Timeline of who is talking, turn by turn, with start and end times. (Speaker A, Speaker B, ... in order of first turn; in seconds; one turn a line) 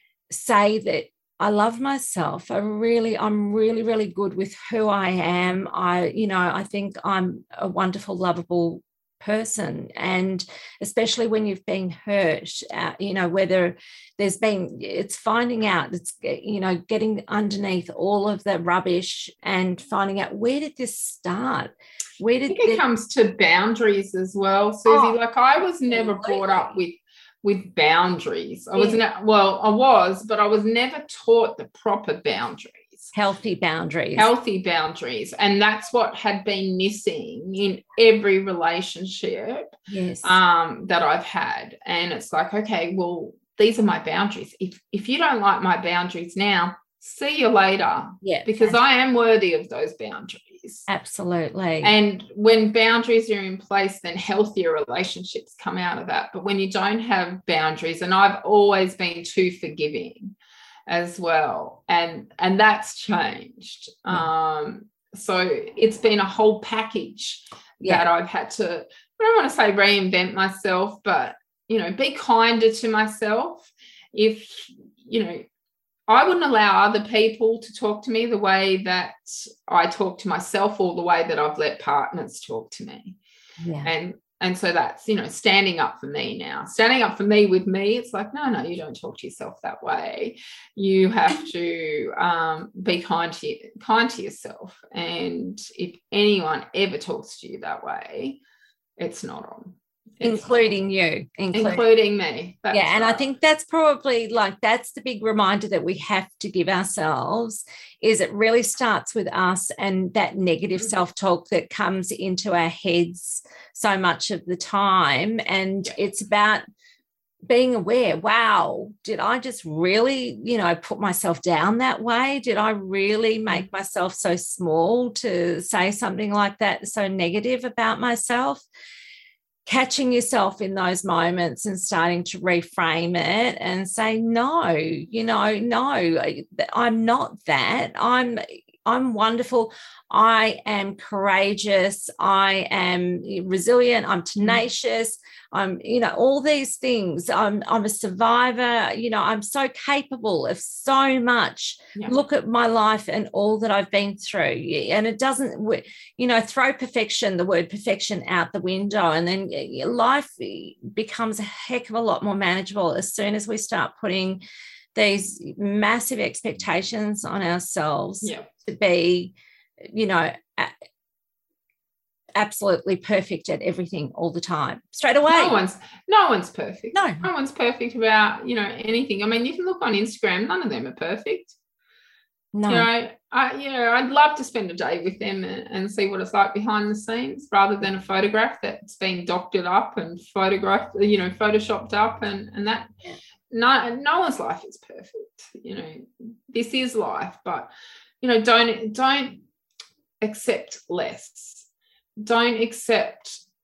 Speaker A: 0.3-22.8
Speaker B: 22.5-33.1
Speaker A: 24.9-25.1
Speaker A: 25.9-26.7
Speaker A: 33.1-34.3
Speaker B: 34.2-39.7
Speaker A: 39.9-40.4
Speaker B: 40.2-50.9
Speaker A: 48.2-48.8
Speaker A: 50.9-51.9
Speaker B: 51.8-60.3
Speaker B: 60.9-75.5
Speaker B: 76.1-83.2
Speaker A: 83.6-83.9
Speaker B: 83.8-98.4
Speaker B: 99.0-100.5
Speaker A: 100.2-101.8
Speaker B: 101.5-103.2
Speaker A: 102.7-116.6
Speaker A: 117.5-128.7
Speaker A: 129.7-164.4
Speaker A: 164.9-169.3
Speaker B: 168.2-168.5
Speaker A: 169.9-170.7
Speaker A: 172.4-175.6
Speaker B: 175.3-181.5
Speaker A: 176.9-177.3
Speaker A: 182.5-182.9
Speaker B: 182.7-192.9
Speaker B: 193.5-199.4
Speaker B: 200.2-201.7
Speaker B: 202.2-203.4